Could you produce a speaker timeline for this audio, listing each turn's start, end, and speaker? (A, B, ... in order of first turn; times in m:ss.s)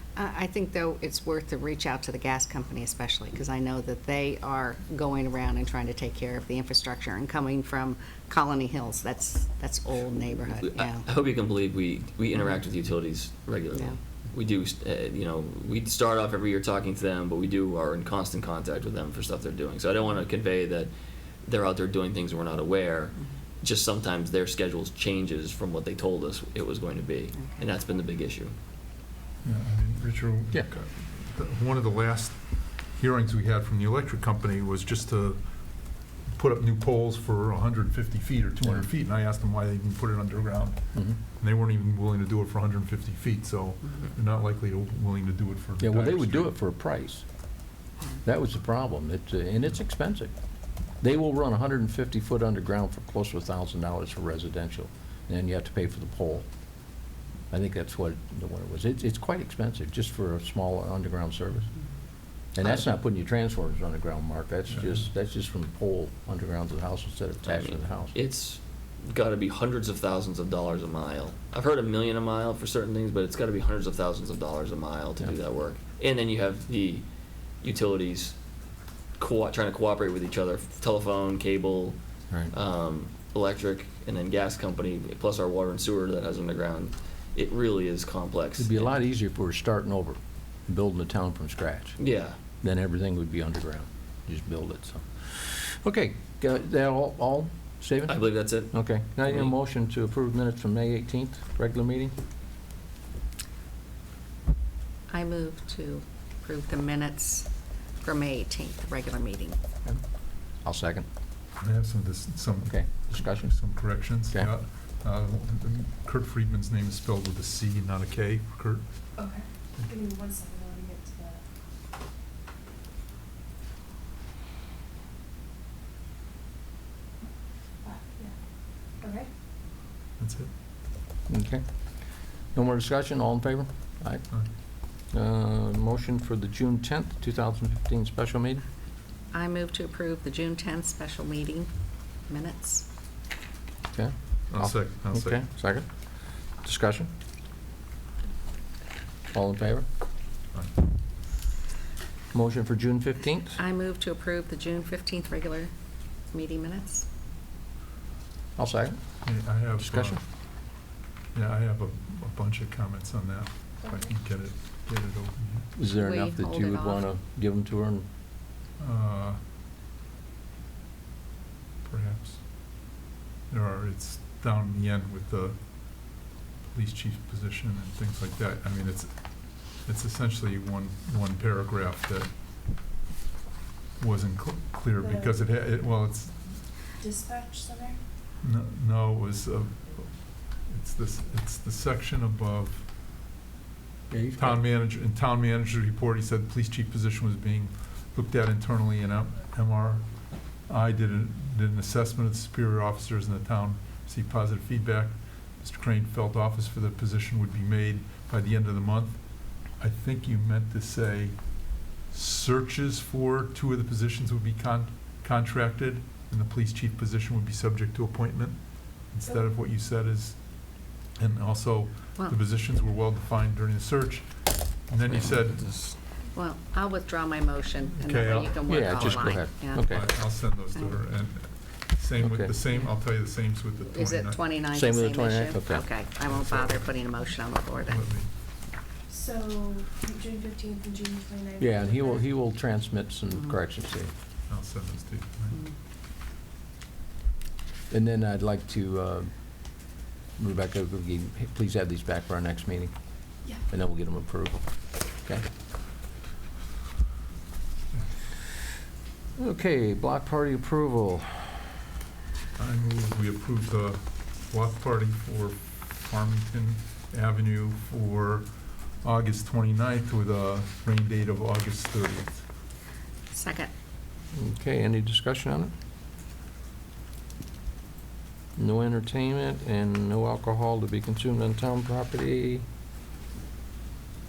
0:00.2-0:11.0 A
0:10.6-0:20.9 B
0:21.4-0:28.5 B
0:29.4-0:46.5 C
0:45.8-0:47.2 D
0:48.2-0:50.3 D
0:51.0-0:56.5 D
0:57.5-1:01.7 D
1:02.5-1:08.2 D
1:02.6-1:02.9 B
1:04.7-1:05.0 C
1:07.5-1:17.0 B
1:17.6-1:18.4 B
1:19.2-1:22.0 B
1:22.5-1:28.9 B
1:28.6-1:32.0 D
1:32.0-1:32.4 B
1:32.6-1:42.1 D
1:38.1-1:38.7 B
1:39.2-1:39.5 B
1:45.1-1:49.6 A
1:50.6-1:51.0 D
1:51.6-1:59.2 C
1:52.7-1:53.5 D
1:59.2-2:01.4 E
2:07.8-2:08.3 E
2:08.9-2:09.3 E
2:10.2-2:10.5 C
2:11.3-2:11.6 D
2:12.5-2:14.2 D
2:15.1-2:18.6 D
2:19.3-2:21.7 A
2:22.3-2:22.9 A
2:23.9-2:26.0 D
2:24.5-2:25.4 C
2:26.6-2:27.1 D
2:29.3-2:29.8 D
2:32.3-2:33.6 D
2:33.6-2:35.7 A
2:36.3-2:37.1 A
2:38.6-2:39.0 D
2:39.2-2:40.2 C
2:39.8-2:40.2 D
2:41.3-2:45.7 C
2:45.8-2:48.1 D
2:46.0-2:47.0 A
2:48.8-2:49.4 C
2:51.8-2:52.7 C
2:53.5-3:02.3 C
3:04.0-3:06.6 C
3:05.0-3:05.3 E
3:07.0-3:07.9 E
3:08.4-3:12.9 C
3:14.1-3:14.6 D
3:14.4-3:46.0 C
3:45.1-3:45.9 B
3:46.3-3:49.9 A
3:47.9-3:54.4 C
3:48.6-3:50.0 D
3:52.2-3:52.5 D
3:53.9-3:58.0 A
3:54.7-3:55.9 D
3:56.2-3:58.3 C
3:59.1-4:02.2 E
4:01.6-4:04.1 D
4:04.5-4:05.6 C
4:07.9-4:09.3 D
4:10.4-4:12.9 D
4:13.7-4:14.6 D
4:19.4-4:21.6 D
4:22.6-4:32.4 C
4:33.3-4:33.7 A
4:34.3-4:35.7 D
4:38.6-4:42.6 D